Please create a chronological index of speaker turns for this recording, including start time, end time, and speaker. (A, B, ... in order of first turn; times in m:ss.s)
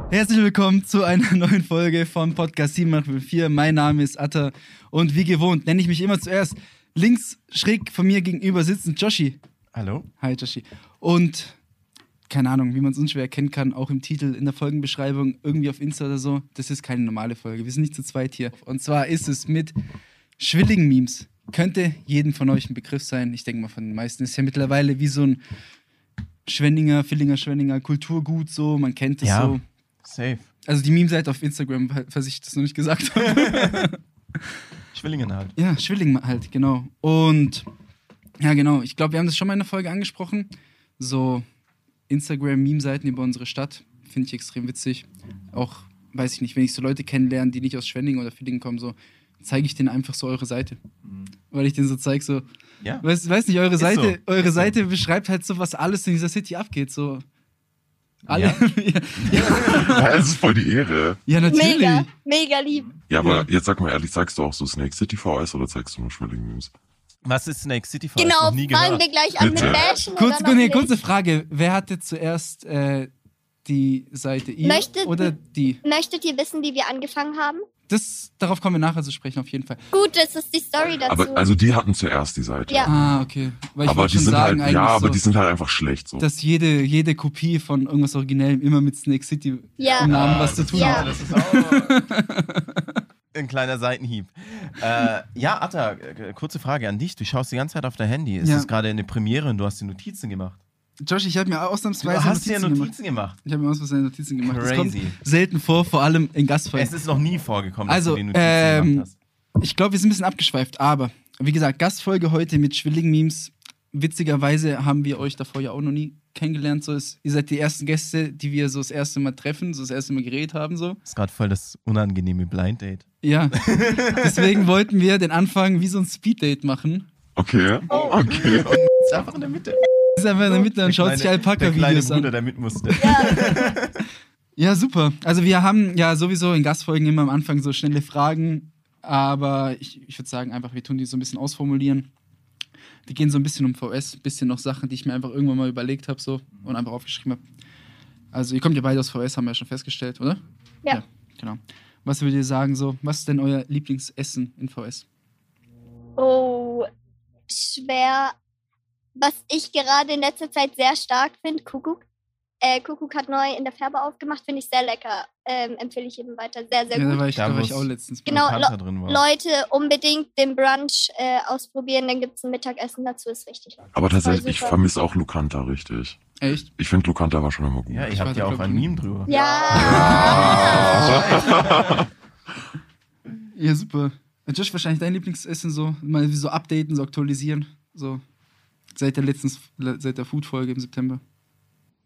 0:00.1-0:09.4 A
0:09.7-0:10.1 B
0:10.2-0:11.6 A
0:12.3-0:19.7 A
0:20.4-0:25.4 A
0:26.4-0:29.6 A
0:29.2-0:30.5 B
0:30.6-0:34.0 A
0:33.2-0:33.9 B
0:34.9-0:35.5 B
0:35.6-0:37.7 A
0:38.4-0:41.4 A
0:42.1-0:50.8 A
0:51.5-0:52.4 A
0:53.0-0:57.2 A
0:53.8-0:54.8 B
0:58.3-1:00.1 A
0:58.3-0:58.6 B
0:59.2-0:59.9 B
0:59.5-1:01.2 C
1:01.3-1:02.1 A
1:01.4-1:02.9 D
1:03.1-1:06.7 C
1:03.2-1:03.4 A
1:07.2-1:09.8 B
1:08.2-1:10.9 D
1:09.4-1:09.8 C
1:10.1-1:13.1 A
1:13.6-1:15.8 A
1:14.6-1:17.6 D
1:17.9-1:19.8 A
1:19.9-1:21.5 D
1:21.1-1:22.9 C
1:22.8-1:25.2 A
1:23.8-1:26.2 C
1:26.2-1:33.0 A
1:29.8-1:30.1 D
1:30.0-1:32.0 B
1:30.2-1:31.1 C
1:30.6-1:31.1 D
1:33.3-1:40.6 B
1:38.4-1:38.7 A
1:41.0-1:42.9 A
1:42.0-1:43.4 B
1:43.4-1:46.9 A
1:44.4-1:45.2 B
1:46.7-1:49.1 B
1:47.9-1:49.1 A
1:49.6-2:01.0 A
2:01.0-2:04.6 B
2:03.2-2:07.1 A
2:07.4-2:08.8 C
2:07.9-2:08.2 D
2:07.9-2:09.8 B
2:10.2-2:12.3 A
2:10.5-2:14.0 B
2:13.0-2:13.7 D
2:14.6-2:22.1 A
2:23.1-2:27.4 A
2:28.3-2:35.0 A
2:36.2-2:36.9 D
2:37.5-2:38.3 D
2:39.2-2:42.0 D
2:42.6-2:47.2 D
2:46.9-2:48.5 A
2:47.3-2:49.2 B
2:48.3-2:54.8 D
2:53.9-2:56.2 C
2:56.4-2:56.7 A
2:56.8-2:58.1 C
2:57.9-3:02.0 B
2:58.1-2:58.9 A
2:59.3-3:01.7 D
2:59.7-3:02.1 C
2:59.8-3:01.0 A
3:03.5-3:08.2 A
3:08.9-3:11.2 A